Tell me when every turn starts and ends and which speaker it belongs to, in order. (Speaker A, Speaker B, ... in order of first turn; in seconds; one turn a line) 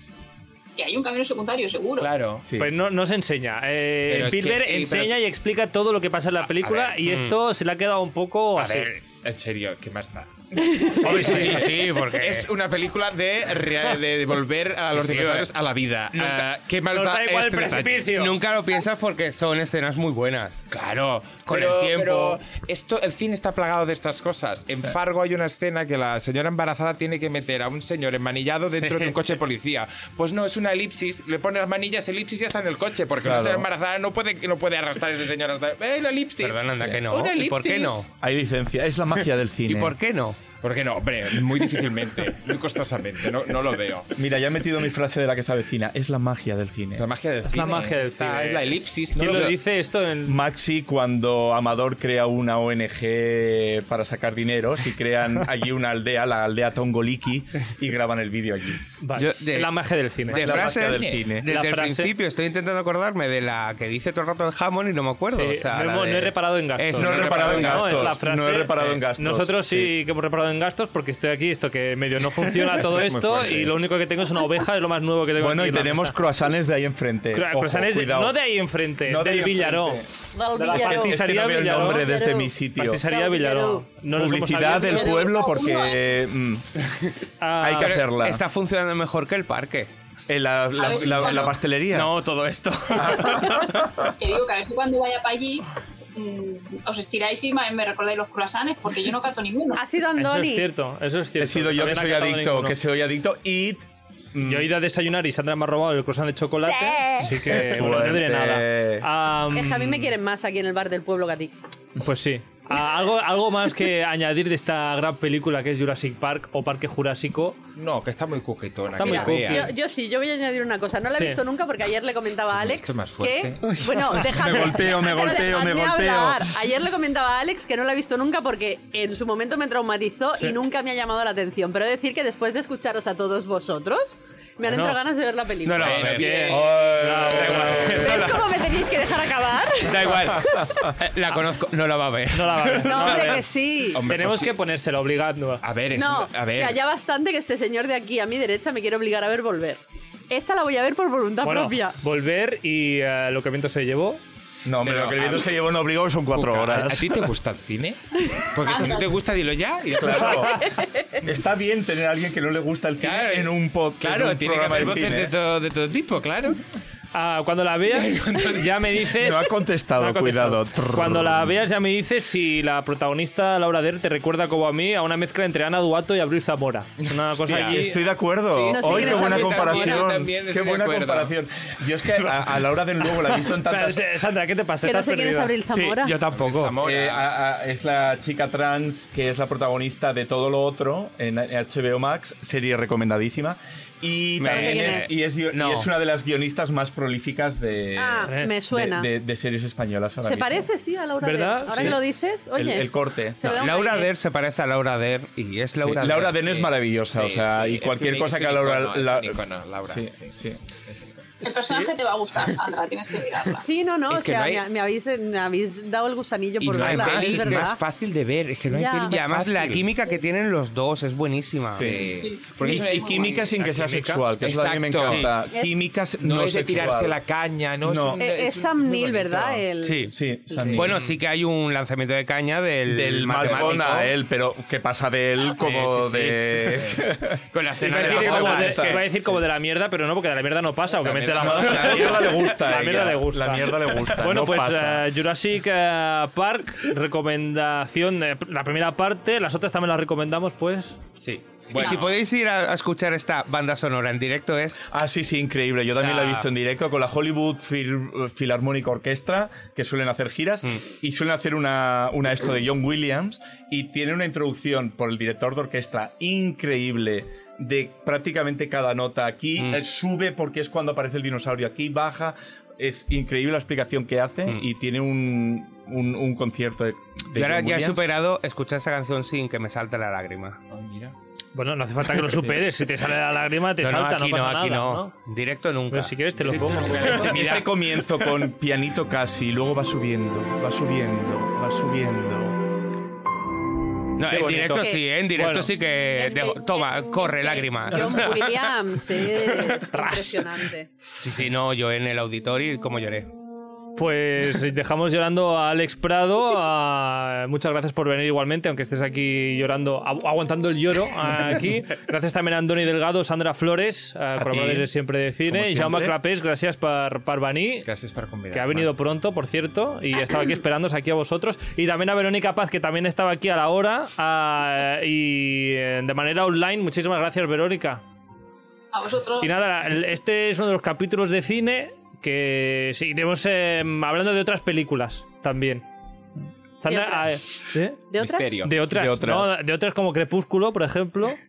Speaker A: 0.8-2.1
Speaker B: 2.0-2.5
Speaker C: 2.4-2.7
Speaker D: 2.5-8.9
Speaker B: 4.1-5.2
Speaker B: 6.6-7.0
Speaker E: 7.0-7.4
Speaker B: 8.6-18.1
Speaker E: 10.9-12.5
Speaker D: 11.0-11.6
Speaker E: 14.9-15.5
Speaker E: 16.1-16.5
Speaker D: 16.9-18.3
Speaker E: 18.1-20.6
Speaker B: 20.7-38.0
Speaker E: 21.4-22.4
Speaker E: 28.9-29.1
Speaker C: 33.2-33.6
Speaker E: 36.4-38.1
Speaker C: 38.2-40.0
Speaker E: 39.7-40.4
Speaker B: 40.6-44.1
Speaker C: 44.1-47.0
Speaker B: 47.0-49.5
Speaker D: 47.5-50.4
Speaker C: 49.3-49.5
Speaker C: 50.2-58.8
Speaker D: 59.0-60.6
Speaker E: 59.1-59.7
Speaker E: 60.3-68.0
Speaker B: 60.3-61.2
Speaker C: 60.4-61.5
Speaker D: 61.4-62.1
Speaker D: 65.3-76.2
Speaker C: 67.0-69.9
Speaker B: 67.1-68.0
Speaker B: 72.6-73.8
Speaker C: 75.4-78.4
Speaker D: 77.3-80.0
Speaker C: 79.0-80.1
Speaker F: 80.3-84.0
Speaker D: 80.5-82.1
Speaker C: 80.6-83.0
Speaker D: 82.7-85.3
Speaker C: 84.1-86.6
Speaker A: 84.7-86.2
Speaker D: 87.4-88.0
Speaker C: 87.6-88.4
Speaker E: 87.8-89.9
Speaker C: 90.3-92.1
Speaker A: 90.7-91.6
Speaker E: 91.0-93.9
Speaker C: 92.9-94.2
Speaker A: 94.2-99.8
Speaker F: 99.8-100.7
Speaker D: 100.2-102.8
Speaker C: 101.4-103.8
Speaker C: 104.3-104.7
Speaker D: 104.4-110.1
Speaker F: 106.6-107.4
Speaker C: 107.4-109.1
Speaker F: 109.5-111.5
Speaker D: 112.0-117.6
Speaker B: 117.7-119.7
Speaker D: 119.0-119.7
Speaker F: 119.0-136.5
Speaker D: 121.1-121.4
Speaker B: 122.5-123.7
Speaker C: 123.6-126.5
Speaker D: 134.7-135.0
Speaker E: 135.6-138.6
Speaker B: 135.8-137.0
Speaker D: 136.0-138.1
Speaker C: 136.5-138.1
Speaker F: 137.8-140.7
Speaker E: 139.8-143.4
Speaker D: 142.3-143.4
Speaker F: 142.8-144.0
Speaker B: 143.9-144.6
Speaker D: 144.0-145.6
Speaker B: 145.6-146.8
Speaker F: 145.9-152.0
Speaker D: 151.4-154.2
Speaker C: 154.6-157.1
Speaker B: 154.8-155.6
Speaker B: 156.3-160.6
Speaker D: 156.8-157.1
Speaker A: 158.6-159.1
Speaker C: 159.9-165.3
Speaker F: 160.6-161.2
Speaker B: 163.0-166.6
Speaker D: 167.1-178.0
Speaker B: 167.9-168.8
Speaker C: 169.1-171.6
Speaker B: 177.0-177.8
Speaker C: 177.7-184.1
Speaker B: 178.5-181.3
Speaker F: 178.7-180.1
Speaker D: 183.5-185.6
Speaker F: 184.8-186.2
Speaker E: 185.7-186.7
Speaker B: 186.3-187.3
Speaker C: 186.8-200.7
Speaker E: 194.4-195.9
Speaker F: 194.5-195.1
Speaker F: 198.0-199.1
Speaker D: 198.3-198.5
Speaker F: 200.2-204.1
Speaker D: 201.2-202.0
Speaker C: 202.5-203.6
Speaker E: 203.4-206.3
Speaker C: 205.8-210.6
Speaker B: 205.9-211.2
Speaker D: 211.4-211.9
Speaker A: 211.4-213.6
Speaker F: 213.6-217.8
Speaker B: 214.1-214.7
Speaker E: 216.6-217.7
Speaker B: 216.6-219.9
Speaker F: 218.7-219.2
Speaker E: 219.1-222.1
Speaker C: 221.7-227.2
Speaker B: 221.7-223.5
Speaker A: 222.2-222.7
Speaker D: 223.6-224.2
Speaker B: 224.4-225.3
Speaker E: 225.0-225.3
Speaker F: 225.5-225.8
Speaker B: 226.2-229.6
Speaker C: 227.8-228.2
Speaker F: 228.2-230.8
Speaker E: 229.8-230.1
Speaker C: 230.1-231.1
Speaker B: 230.6-230.9
Speaker E: 230.7-234.1
Speaker C: 232.9-239.0
Speaker B: 233.5-233.8
Speaker E: 235.5-239.4
Speaker D: 237.8-251.0
Speaker B: 241.0-242.3
Speaker C: 241.4-245.1
Speaker E: 251.2-254.8
Speaker B: 251.7-252.0
Speaker C: 254.9-278.1
Speaker E: 255.9-256.4
Speaker E: 277.3-280.6
Speaker B: 280.7-281.1
Speaker D: 281.5-285.1
Speaker E: 283.8-288.2
Speaker D: 285.9-287.6
Speaker C: 287.1-292.6
Speaker E: 294.2-299.8
Speaker C: 294.3-294.8
Speaker F: 294.4-295.0
Speaker D: 295.3-295.7
Speaker F: 296.2-300.9
Speaker D: 299.9-300.3
Speaker E: 301.2-303.3
Speaker D: 303.9-317.9
Speaker C: 314.4-314.9
Speaker C: 315.5-316.1
Speaker B: 317.8-318.9
Speaker D: 318.5-328.0
Speaker A: 328.9-329.6
Speaker D: 329.4-335.8
Speaker D: 336.8-338.1
Speaker F: 336.9-337.3
Speaker F: 338.1-338.6
Speaker B: 338.2-338.8
Speaker D: 338.6-341.4
Speaker C: 338.9-339.6